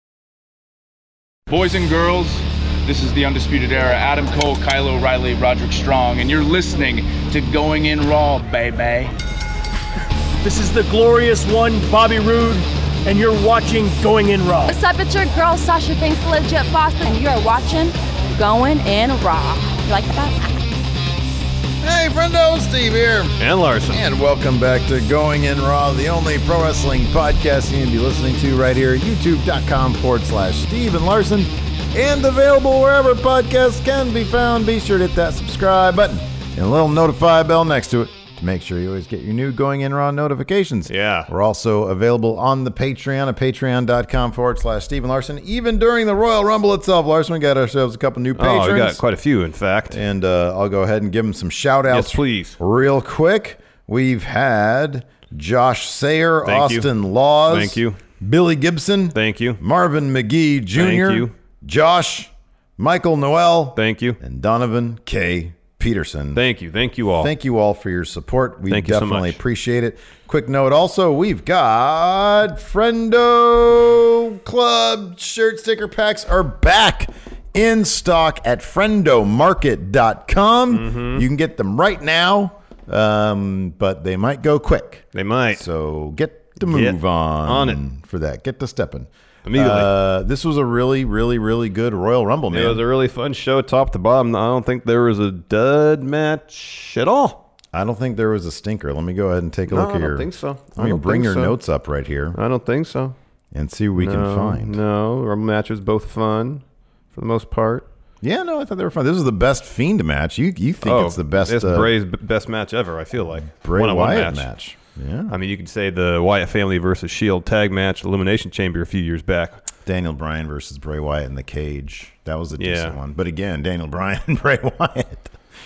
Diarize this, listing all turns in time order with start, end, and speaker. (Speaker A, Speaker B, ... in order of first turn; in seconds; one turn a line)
Speaker A: 1.5-9.1
Speaker B: 10.4-14.8
Speaker C: 14.7-20.3
Speaker D: 21.8-49.0
Speaker E: 23.4-24.0
Speaker E: 40.9-41.3
Speaker E: 48.4-50.0
Speaker D: 49.9-66.4
Speaker E: 51.9-52.6
Speaker E: 56.5-56.9
Speaker E: 57.5-58.0
Speaker E: 59.1-59.6
Speaker E: 60.8-61.3
Speaker E: 63.8-64.2
Speaker E: 66.3-67.3
Speaker D: 67.2-92.8
Speaker E: 68.7-69.4
Speaker E: 80.7-81.2
Speaker E: 85.1-85.6
Speaker E: 86.6-87.8
Speaker E: 89.5-89.9
Speaker E: 92.5-97.4
Speaker D: 97.7-102.4
Speaker E: 99.7-101.5
Speaker E: 102.3-103.2
Speaker D: 103.5-104.8
Speaker E: 104.0-106.6
Speaker E: 107.1-107.8
Speaker D: 108.2-111.9
Speaker E: 110.8-114.5
Speaker D: 113.6-115.3
Speaker E: 115.3-119.6
Speaker D: 119.8-125.3
Speaker E: 122.6-123.0